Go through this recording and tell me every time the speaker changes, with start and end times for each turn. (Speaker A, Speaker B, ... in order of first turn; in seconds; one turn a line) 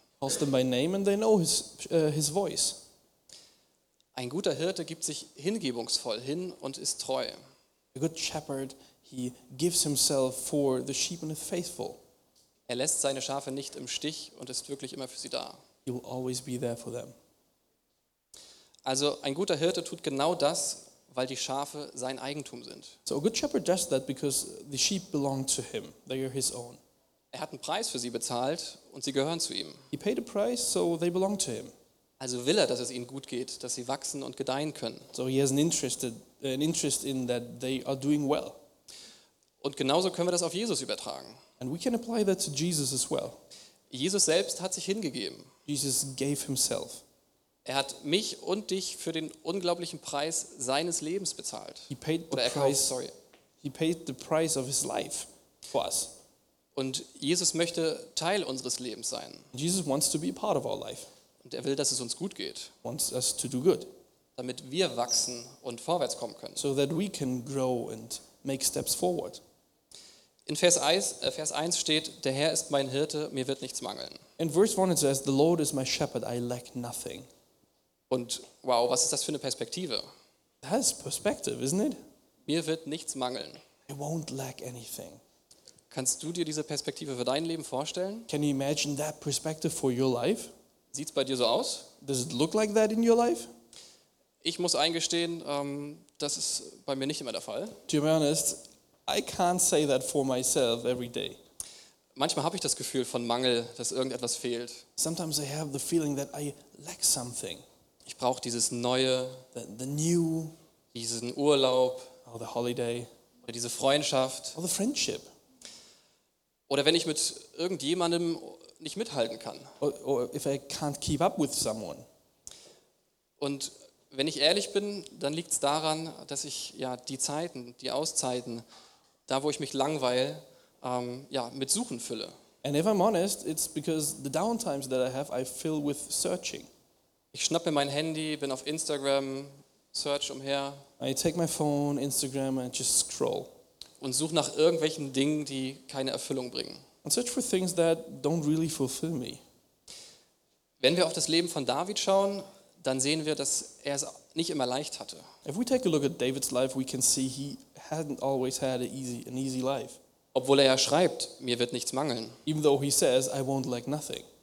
Speaker A: 0.2-2.8
Speaker B: 4.2-7.4
Speaker A: 8.0-12.0
Speaker B: 12.7-15.6
Speaker A: 15.9-17.1
Speaker B: 18.9-23.0
Speaker A: 23.1-26.8
Speaker B: 27.3-29.9
Speaker A: 29.9-31.7
Speaker B: 32.2-35.1
Speaker A: 35.1-38.6
Speaker B: 39.6-41.4
Speaker A: 41.6-43.4
Speaker B: 43.9-45.5
Speaker A: 45.7-47.0
Speaker B: 47.6-53.1
Speaker A: 51.9-52.9
Speaker A: 53.6-56.1
Speaker B: 56.8-59.5
Speaker A: 59.5-61.1
Speaker B: 61.4-62.7
Speaker A: 62.8-63.9
Speaker B: 64.4-66.6
Speaker A: 66.6-69.4
Speaker B: 70.5-74.2
Speaker A: 74.4-77.3
Speaker B: 78.1-80.1
Speaker A: 80.6-82.0
Speaker B: 82.5-83.6
Speaker A: 83.9-85.2
Speaker B: 85.9-88.3
Speaker A: 88.3-90.5
Speaker B: 90.9-91.9
Speaker A: 92.0-93.5
Speaker B: 94.4-97.8
Speaker A: 97.9-101.4
Speaker B: 102.2-104.8
Speaker A: 105.0-107.6
Speaker B: 108.1-109.5
Speaker A: 109.5-110.5
Speaker B: 110.9-112.2
Speaker A: 112.3-113.1
Speaker B: 113.4-114.6
Speaker A: 114.5-115.3
Speaker B: 116.7-119.7
Speaker A: 119.8-122.0
Speaker B: 123.4-128.7
Speaker B: 129.3-132.3
Speaker A: 132.6-136.7
Speaker B: 137.3-140.9
Speaker A: 141.0-143.5
Speaker B: 144.0-146.8
Speaker A: 147.0-149.4
Speaker B: 150.8-155.3
Speaker A: 155.4-160.0
Speaker B: 160.3-162.4
Speaker A: 162.5-164.3